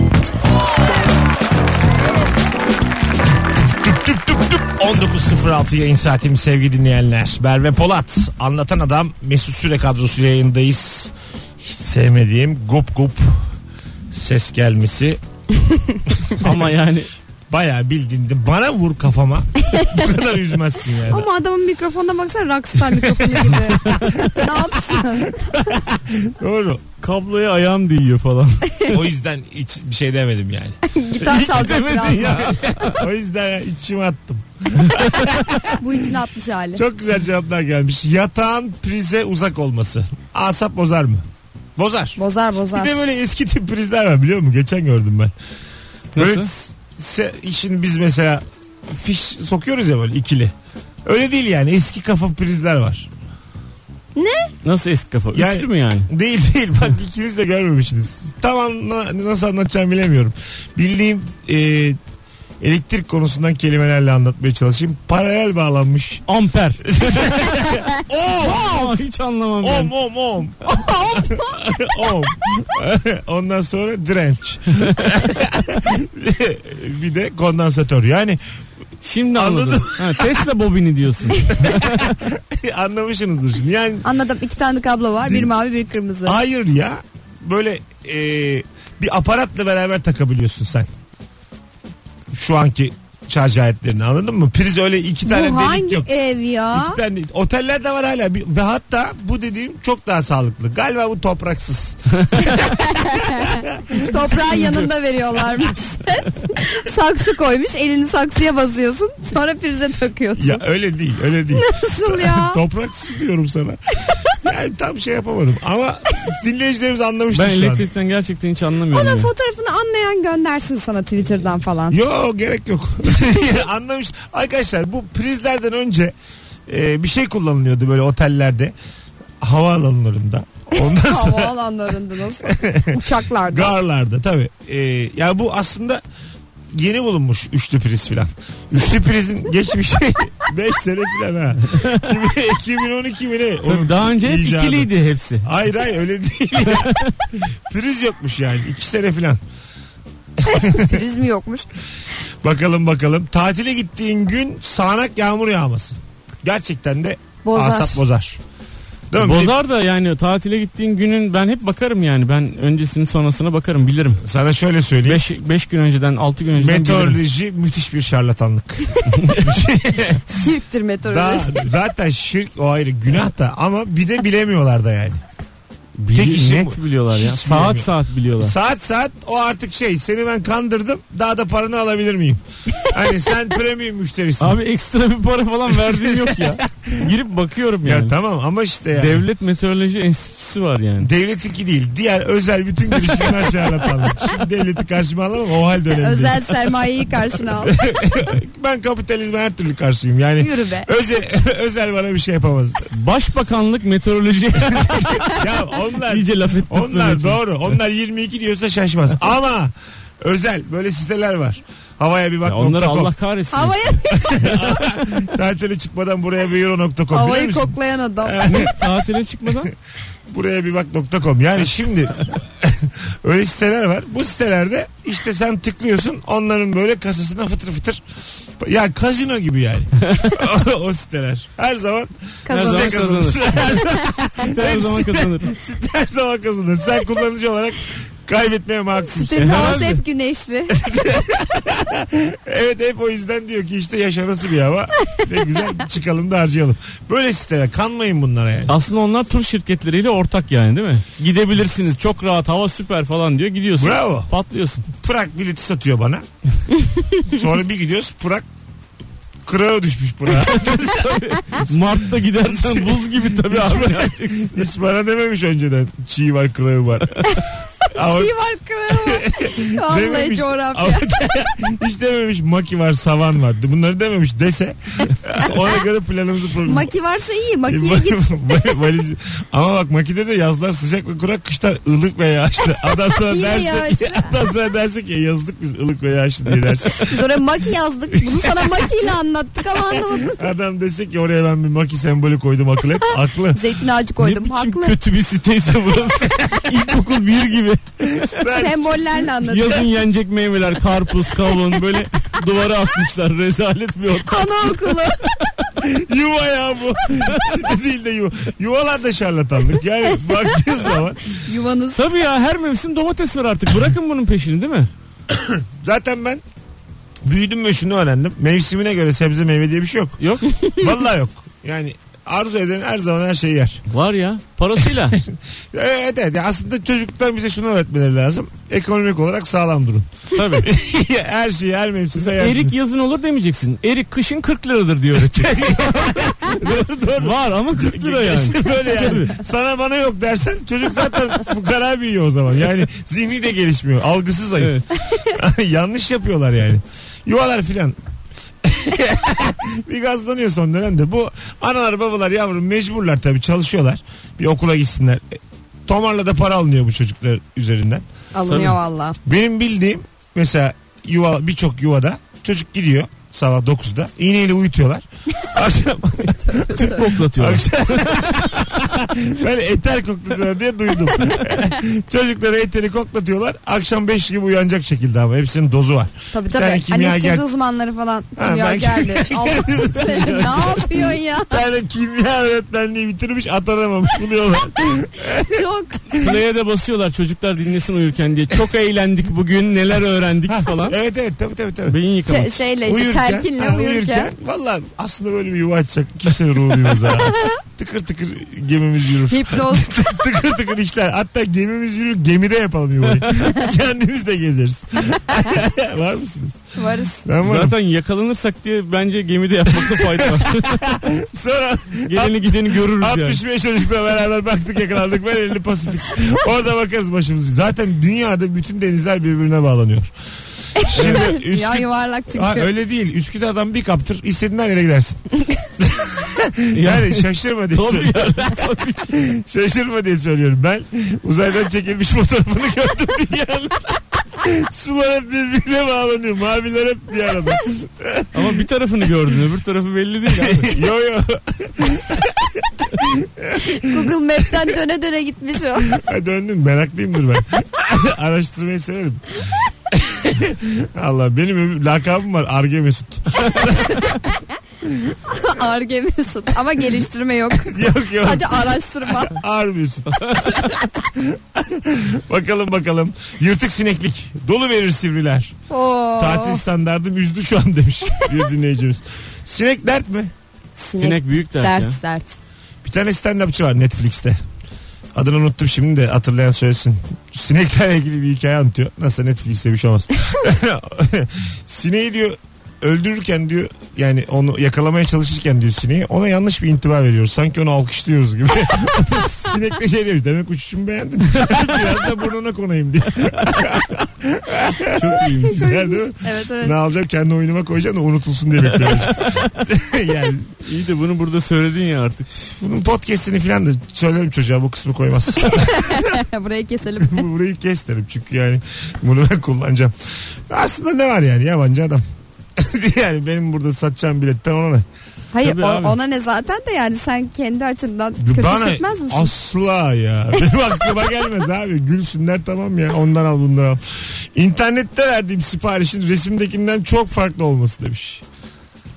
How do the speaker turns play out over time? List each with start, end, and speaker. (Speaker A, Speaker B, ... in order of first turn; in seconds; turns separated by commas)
Speaker A: 3.6-13.5, Speaker A: 14.1-15.2, Speaker A: 16.1-16.7, Speaker B: 16.4-17.1, Speaker A: 17.5-21.3, Speaker C: 21.0-25.5, Speaker A: 22.8-26.8, Speaker B: 23.8-24.2, Speaker B: 27.0-29.1, Speaker A: 28.9-30.8, Speaker C: 30.8-32.5, Speaker B: 31.2-33.0, Speaker A: 32.3-36.1, Speaker B: 34.8-35.3, Speaker C: 35.8-36.8, Speaker A: 36.7-41.2, Speaker A: 41.8-42.2, Speaker C: 42.1-43.0, Speaker A: 42.7-45.3, Speaker A: 46.1-50.5, Speaker B: 46.2-46.5, Speaker A: 51.0-53.1, Speaker C: 54.1-54.5, Speaker B: 54.6-56.1, Speaker A: 55.3-62.0, Speaker A: 62.6-66.2, Speaker B: 66.3-69.9, Speaker A: 66.8-69.0, Speaker A: 69.6-78.4, Speaker B: 70.6-71.2, Speaker B: 79.0-82.1, Speaker A: 79.3-80.4, Speaker A: 81.5-84.0, Speaker C: 84.0-86.4, Speaker A: 85.2-85.5, Speaker A: 86.2-90.9, Speaker A: 92.3-96.1, Speaker C: 95.2-97.0, Speaker A: 96.7-104.6, Speaker C: 102.4-110.6, Speaker A: 110.4-113.8, Speaker C: 111.5-112.6, Speaker A: 114.3-117.9, Speaker B: 117.3-119.3, Speaker C: 118.9-122.0, Speaker A: 121.9-126.1, Speaker A: 126.7-128.7, Speaker A: 129.4-131.6, Speaker C: 130.8-133.7, Speaker A: 132.4-136.0, Speaker A: 136.7-144.9, Speaker B: 141.7-142.2, Speaker B: 143.6-145.5, Speaker A: 145.4-149.4, Speaker B: 146.6-147.1, Speaker A: 150.4-151.0, Speaker C: 150.4-151.7, Speaker A: 152.4-158.4, Speaker C: 157.4-158.0, Speaker A: 159.1-159.5, Speaker B: 159.2-164.2, Speaker A: 164.2-165.2, Speaker B: 165.0-167.2, Speaker A: 166.6-170.4, Speaker B: 169.1-169.5, Speaker C: 170.3-171.7, Speaker A: 171.1-175.2, Speaker B: 176.0-178.5, Speaker A: 176.1-184.6, Speaker B: 184.4-188.1, Speaker A: 185.8-187.1, Speaker A: 187.8-189.2, Speaker B: 188.9-191.1, Speaker A: 191.0-196.7, Speaker C: 195.9-197.7, Speaker A: 197.6-202.9, Speaker C: 200.4-200.9, Speaker B: 202.9-205.5, Speaker A: 204.7-213.1, Speaker B: 206.1-207.8, Speaker B: 212.4-213.9, Speaker C: 213.5-214.8, Speaker A: 214.2-218.8, Speaker B: 214.4-215.2, Speaker C: 217.1-218.7, Speaker B: 218.4-219.7, Speaker A: 220.3-228.0, Speaker A: 228.6-239.8, Speaker C: 232.4-234.2, Speaker B: 232.5-235.5, Speaker C: 239.0-240.8, Speaker B: 239.3-240.0, Speaker A: 240.7-248.8, Speaker B: 248.7-254.9, Speaker A: 253.8-254.3, Speaker A: 254.9-256.2, Speaker A: 257.2-258.4, Speaker A: 259.4-267.4, Speaker B: 260.4-264.6, Speaker C: 267.3-271.0, Speaker A: 267.9-268.3, Speaker A: 268.9-276.9, Speaker C: 276.6-278.2, Speaker A: 277.7-287.3, Speaker C: 283.0-284.4, Speaker C: 287.1-290.5, Speaker A: 288.1-288.9, Speaker A: 289.7-293.6, Speaker C: 293.5-294.9, Speaker B: 294.2-297.8, Speaker A: 298.0-299.1, Speaker C: 298.5-299.9, Speaker B: 299.4-305.7, Speaker C: 304.2-305.3, Speaker A: 305.8-311.4, Speaker B: 307.3-307.6, Speaker C: 311.3-312.0, Speaker B: 311.9-314.9, Speaker A: 315.3-316.4, Speaker A: 317.2-323.8, Speaker B: 320.2-320.6, Speaker B: 323.9-325.2, Speaker A: 324.8-330.1, Speaker B: 330.4-330.7, Speaker A: 330.6-332.8, Speaker B: 332.2-336.6, Speaker A: 335.2-348.0, Speaker B: 337.1-339.4, Speaker B: 344.6-344.9, Speaker A: 348.6-358.0, Speaker C: 358.3-359.2, Speaker B: 358.5-358.8, Speaker A: 359.2-377.4, Speaker C: 366.4-367.0, Speaker B: 366.7-368.6, Speaker C: 376.3-381.6, Speaker A: 378.4-386.4, Speaker C: 385.4-386.0, Speaker B: 386.1-390.9, Speaker A: 390.5-392.0, Speaker B: 391.9-392.6, Speaker C: 392.2-394.3, Speaker A: 392.8-406.7, Speaker C: 399.3-400.1, Speaker C: 406.7-407.2, Speaker A: 407.2-407.7, Speaker B: 407.4-410.9, Speaker A: 409.7-420.1, Speaker B: 412.1-413.4, Speaker C: 420.8-422.7, Speaker A: 420.8-438.6, Speaker B: 420.9-421.3, Speaker B: 426.7-429.2, Speaker B: 438.3-440.8, Speaker A: 440.3-444.1, Speaker C: 443.6-445.9, Speaker A: 445.9-454.2, Speaker C: 454.0-454.3, Speaker A: 454.8-455.2, Speaker C: 455.3-459.4, Speaker A: 457.6-465.5, Speaker B: 460.1-460.5, Speaker C: 465.7-466.6, Speaker A: 466.2-470.3, Speaker C: 470.8-472.4, Speaker B: 471.0-472.0, Speaker A: 472.8-474.4, Speaker A: 475.1-500.5, Speaker B: 491.4-491.6, Speaker B: 494.9-495.6, Speaker C: 495.4-496.7, Speaker B: 498.7-499.5, Speaker B: 500.6-502.3, Speaker A: 502.3-506.2, Speaker C: 505.4-507.2, Speaker A: 507.0-509.9, Speaker A: 510.5-512.0, Speaker A: 512.5-514.9, Speaker C: 515.3-519.3, Speaker B: 515.4-516.0, Speaker A: 518.2-528.2